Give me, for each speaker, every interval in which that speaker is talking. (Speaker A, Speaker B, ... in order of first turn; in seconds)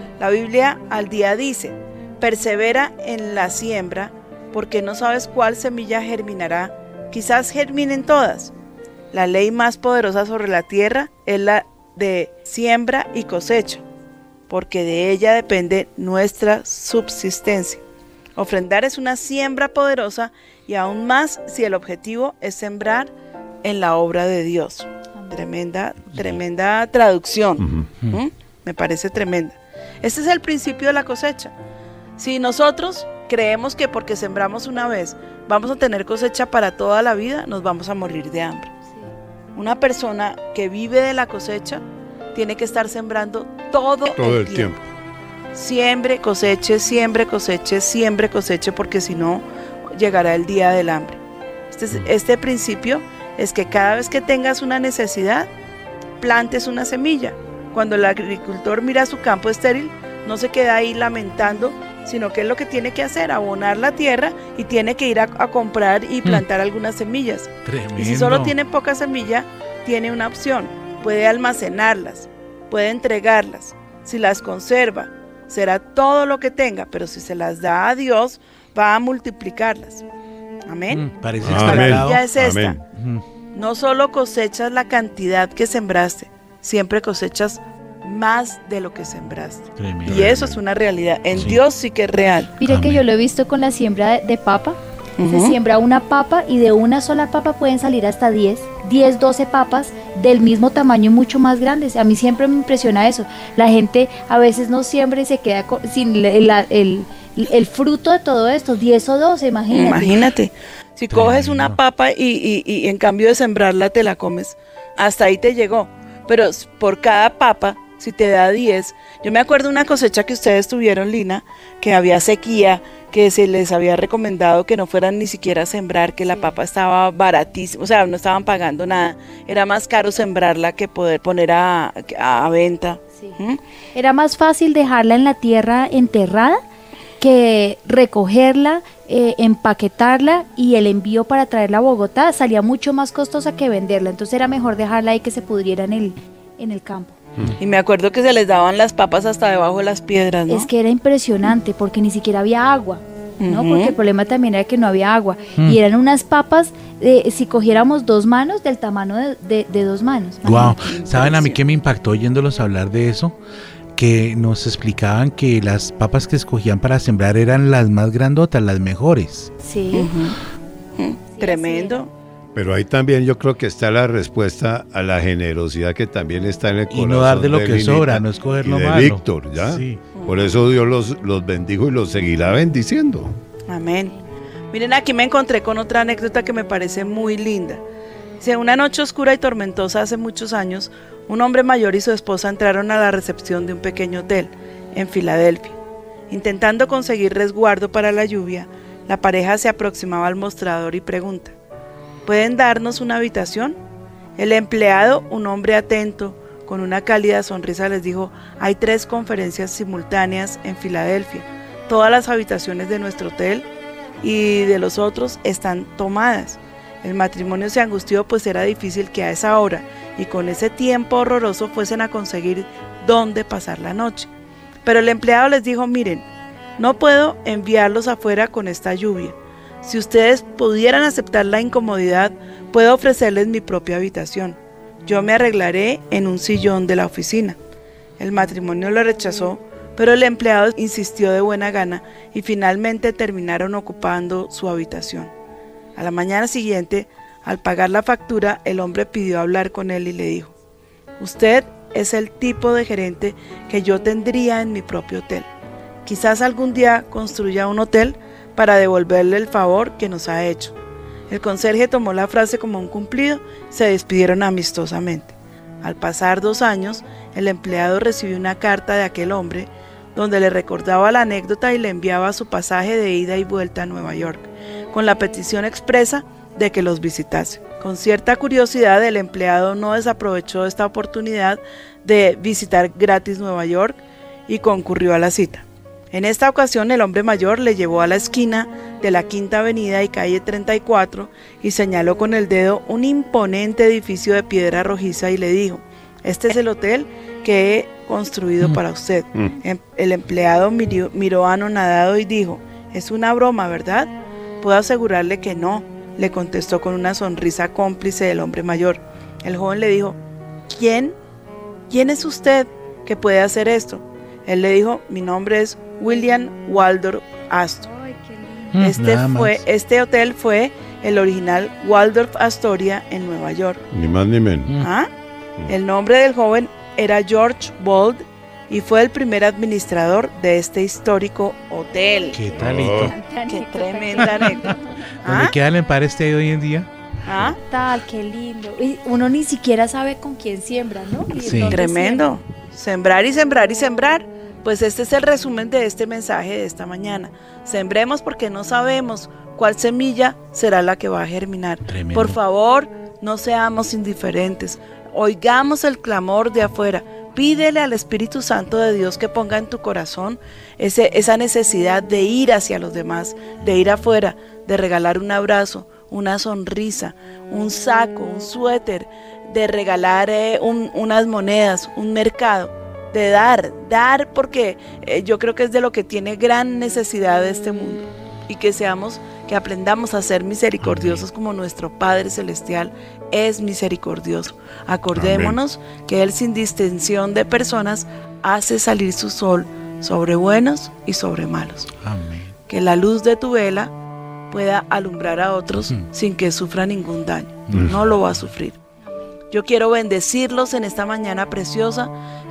Speaker A: 0.2-8.5, 9.1-13.8, 14.5-17.8, 18.4-23.1, 23.6-31.5, 32.2-38.7, 39.5-41.8, 42.3-44.8, 45.5-51.2, 51.7-55.5, 56.2-80.0, 80.7-82.8, 83.5-92.5, 95.2-95.5, 109.7-133.6, 147.6-150.7, 153.4-153.9, 160.5-161.6, 169.9-170.4, 171.0-172.1, 180.1-180.5, 183.7-184.1, 184.7-187.8, 188.4-195.8, 196.3-201.5, 202.2-203.8, 204.4-213.7, 214.2-224.3, 224.8-226.2, 226.8-237.6, 238.2-245.3, 246.0-250.5, 251.2-255.5, 256.1-260.8, 261.3-310.2, 310.7-311.1, 311.9-317.9, 318.8-323.8, 324.8-325.1, 325.7-332.4, 333.5-335.5, 337.2-337.6, 341.7-391.9, 392.7-393.9, 394.5-398.8, 399.5-402.1
Speaker B: 27.6-27.9, 44.1-44.8, 81.4-82.8, 90.0-90.6, 172.5-183.4, 323.9-324.8, 332.6-333.1, 385.1-385.6
Speaker C: 67.6-68.5, 80.9-82.2, 82.9-83.2, 89.8-90.3, 91.3-91.6, 92.7-93.0, 111.1-111.8, 160.4-163.3, 163.9-169.5, 176.9-180.0, 318.7-319.6, 332.3-333.1, 335.2-336.9, 341.4-341.7, 351.9-352.4, 380.8-381.2, 392.0-392.5, 397.7-398.4
Speaker D: 92.6-110.3, 133.9-136.6, 137.2-147.2, 150.5-160.8, 169.6-170.1, 171.3-172.0, 317.9-318.7, 333.0-335.2, 337.6-342.3